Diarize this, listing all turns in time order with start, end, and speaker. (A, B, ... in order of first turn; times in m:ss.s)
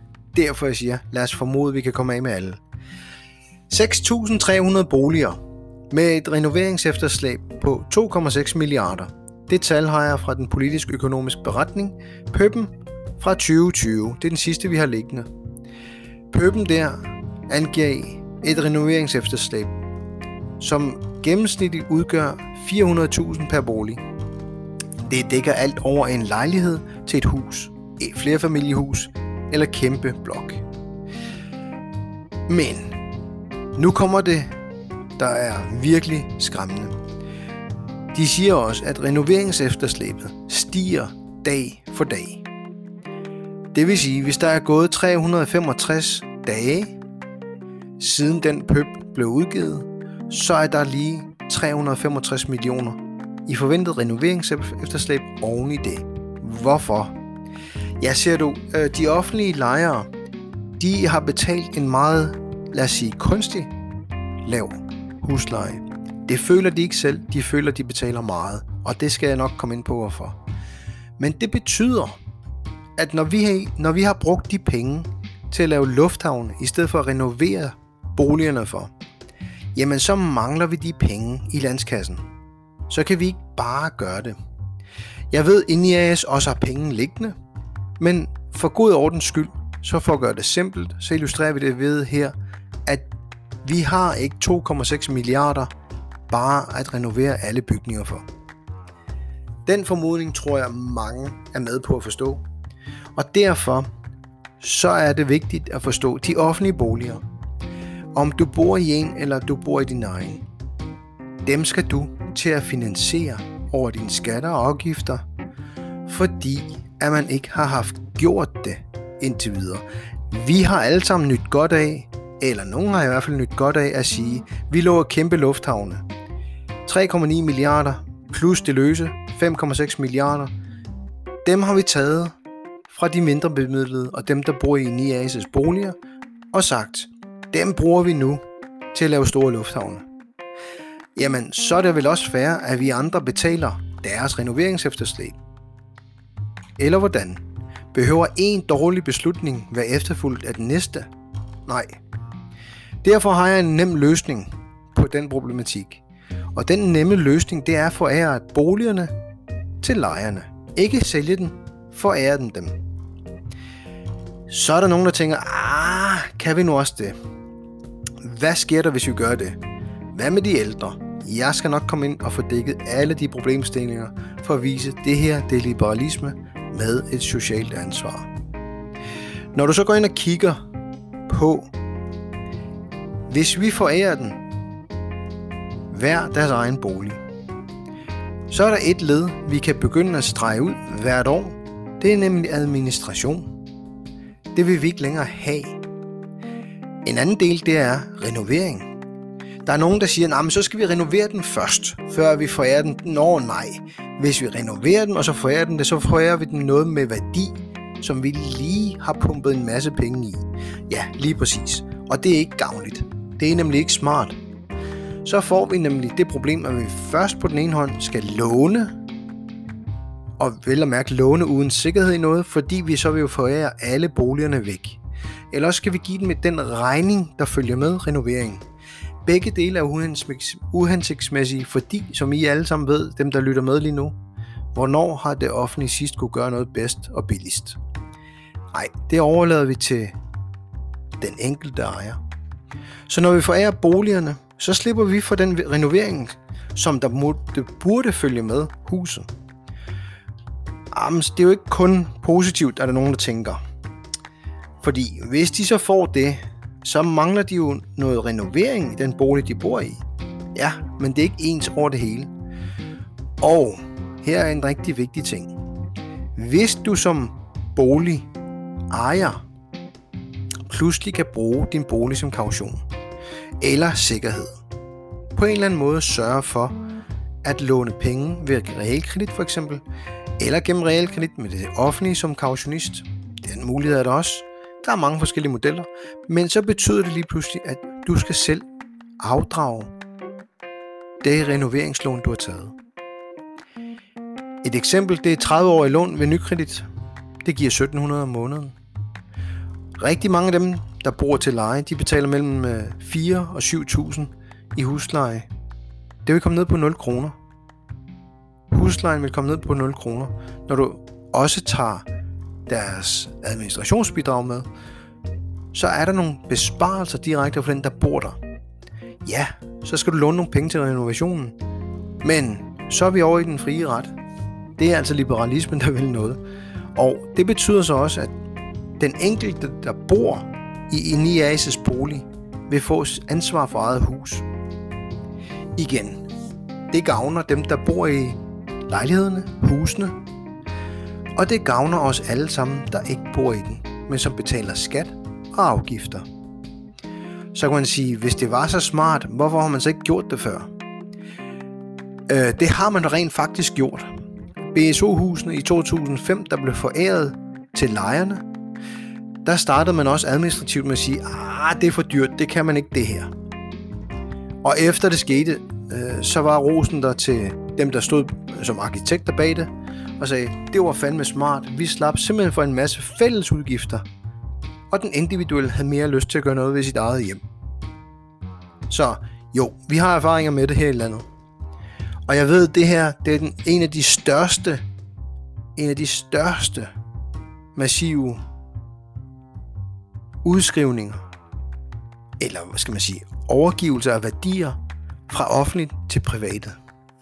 0:00.3-0:02.6 A
0:03.7-0:05.4 A
0:05.9-0:15.3 A
0:16.3-0:19.8 A
0:20.6-0:24.0 A
0:25.0-0:30.6 A
0:32.5-0:33.0 A
0:33.8-0:34.5 A
0:35.2-0:36.9 A
0:38.1-0:42.4 A
0:43.7-0:47.0 A
0:48.0-0:57.2 A
0:58.0-1:00.1 A
1:00.8-1:03.7 A
1:04.4-1:10.4 A
1:11.2-1:12.2 A
1:13.0-1:18.9 A
1:19.8-1:22.2 A
1:22.9-1:24.4 A
1:25.3-1:27.3 A
1:28.0-1:32.4 A
1:33.6-1:35.7 A
1:36.3-1:38.3 A
1:39.7-1:42.4 A
1:43.2-1:43.9 A
1:44.6-1:47.2 A
1:48.2-1:50.4 A
1:51.4-1:55.2 A
1:56.1-2:06.0 A
2:06.8-2:10.5 A
2:11.4-2:12.3 A
2:12.9-2:16.0 A
2:16.5-2:18.4 A
2:18.9-2:20.0 A
2:21.2-2:25.4 A
2:26.8-2:31.1 A
2:31.7-2:32.0 A
2:33.0-2:36.0 A
2:36.6-2:39.1 A
2:39.8-2:42.8 A
2:44.5-2:47.2 A
2:48.2-2:49.6 A
2:50.1-2:58.3 A
2:59.5-3:00.6 A
3:01.3-3:01.7 A
3:03.3-3:04.4 A
3:05.9-3:07.2 A
3:08.5-3:13.5 A
3:14.5-3:15.8 A
3:17.0-3:18.9 A
3:19.6-3:34.4 A
3:35.2-3:39.0 A
3:40.4-3:45.0 A
3:45.5-3:48.6 A
3:49.3-3:54.2 A
3:54.7-3:57.8 A
3:58.7-4:00.2 A
4:01.2-4:02.2 A
4:03.1-4:09.3 A
4:10.9-4:13.6 A
4:14.8-4:20.0 A
4:20.6-4:22.3 A
4:23.4-4:25.6 A
4:26.4-4:28.3 A
4:28.9-4:29.4 A
4:30.7-4:32.8 A
4:33.6-4:34.6 A
4:35.4-4:36.8 A
4:37.4-4:39.8 A
4:40.4-4:48.6 A
4:49.2-4:49.9 A
4:51.2-4:52.8 A
4:54.6-4:56.9 A
4:57.4-4:58.8 A
5:00.0-5:05.5 A
5:06.2-5:07.4 A
5:08.7-5:12.1 A
5:12.7-5:14.7 A
5:15.7-5:18.4 A
5:19.2-5:21.6 A
5:22.2-5:24.1 A
5:24.8-5:26.4 A
5:27.0-5:28.3 A
5:29.0-5:34.5 A
5:35.8-5:36.2 A
5:36.9-5:40.2 A
5:41.4-5:46.3 A
5:47.5-5:50.7 A
5:52.3-5:54.1 A
5:54.7-5:58.4 A
5:59.4-6:03.3 A
6:04.6-6:14.0 A
6:14.9-6:17.4 A
6:18.9-6:21.3 A
6:22.3-6:24.8 A
6:25.8-6:26.9 A
6:27.8-6:28.4 A
6:30.4-6:31.2 A
6:32.4-6:34.8 A
6:35.3-6:36.8 A